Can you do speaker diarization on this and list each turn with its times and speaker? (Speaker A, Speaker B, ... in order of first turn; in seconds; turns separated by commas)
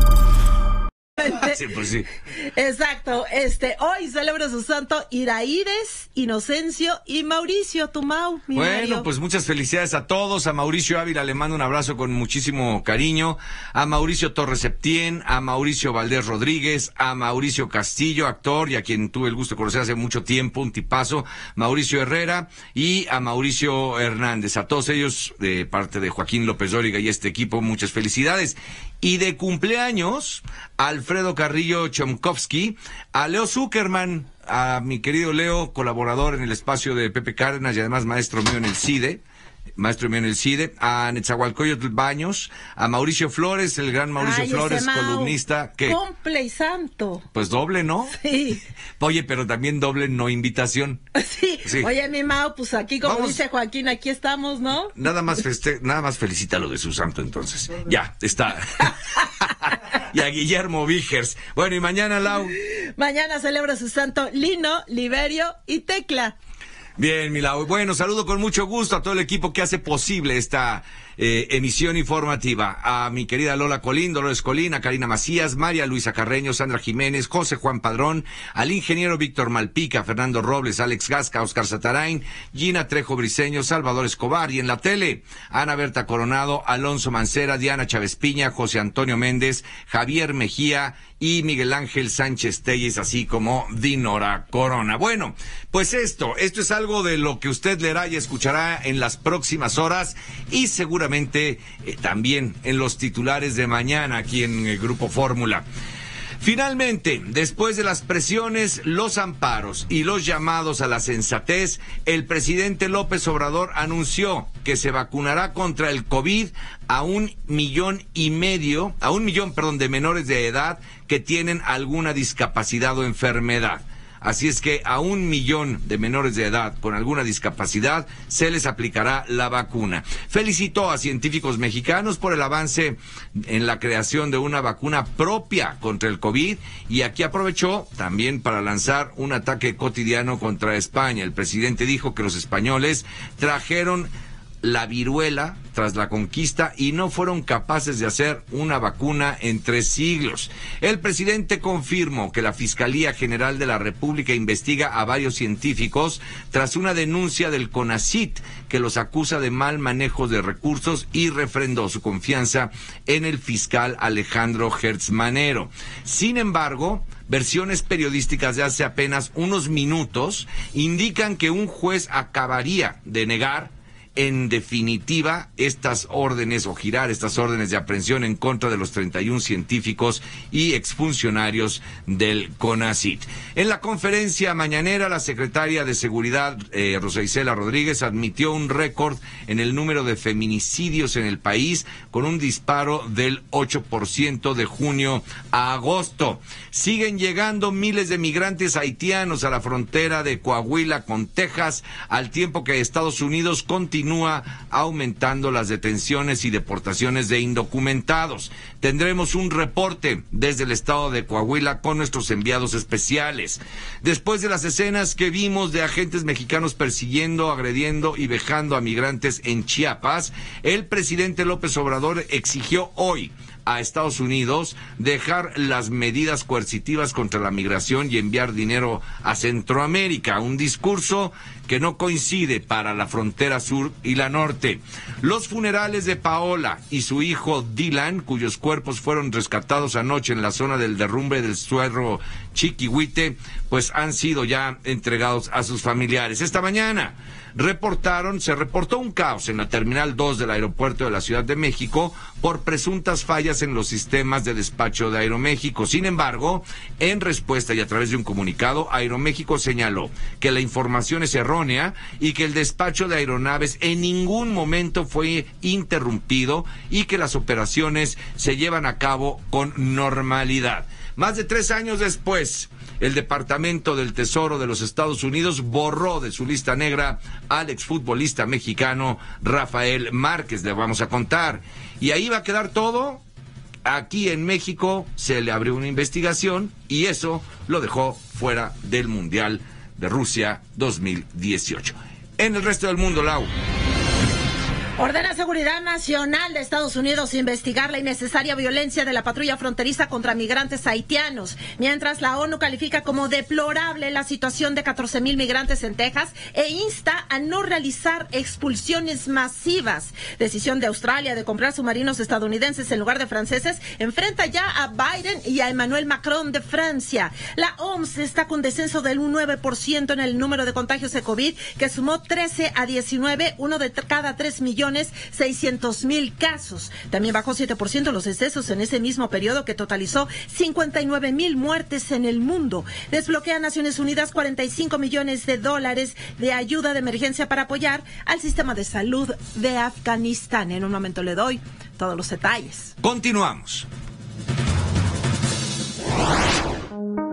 Speaker A: 1.2-2.1, Speaker B: 1.2-1.5, Speaker B: 2.5-9.1, Speaker A: 8.5-39.2, Speaker A: 39.8-46.0, Speaker B: 44.2-47.2, Speaker A: 47.3-48.1, Speaker B: 48.1-48.6, Speaker A: 49.0-51.0, Speaker B: 51.1-54.9, Speaker A: 53.0-53.4, Speaker A: 54.9-62.5, Speaker B: 62.6-66.3, Speaker A: 67.0-105.6, Speaker A: 106.4-144.1, Speaker A: 144.6-283.2, Speaker A: 283.8-293.5, Speaker B: 295.0-342.9, Speaker A: 343.0-343.9